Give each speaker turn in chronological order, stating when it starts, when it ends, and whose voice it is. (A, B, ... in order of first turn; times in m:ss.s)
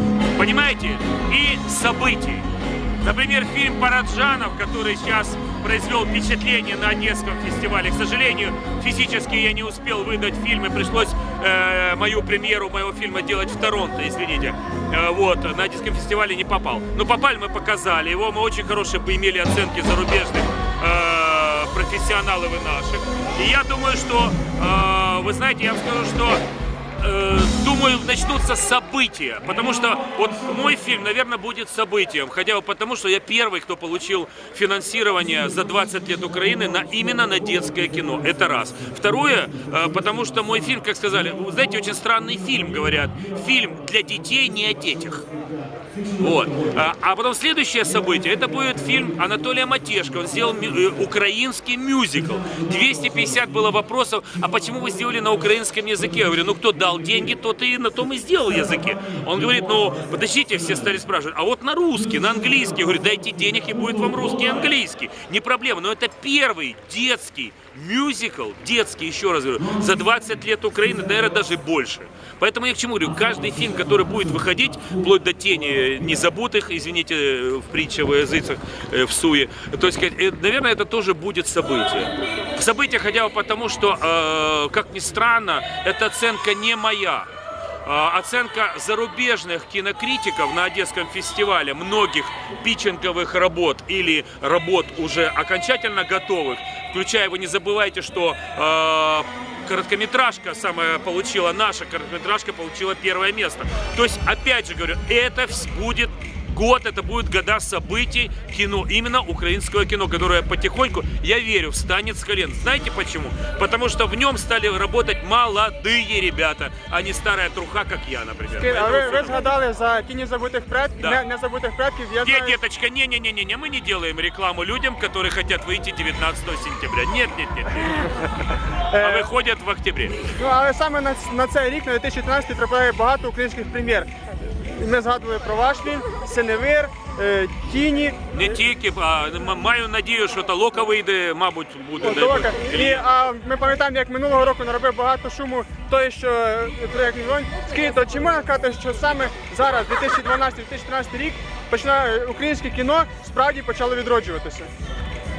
0:00.3-0:02.5 A
0:03.0-0:26.4 A
0:27.0-0:45.2 A
0:46.2-1:27.3 A
1:27.8-1:59.5 A
1:58.6-2:02.6 B
2:02.2-2:08.2 A
2:08.9-2:09.3 B
2:09.0-2:10.1 A
2:10.4-2:14.1 B
2:14.8-2:18.6 B
2:18.3-2:23.1 A
2:22.0-2:34.7 B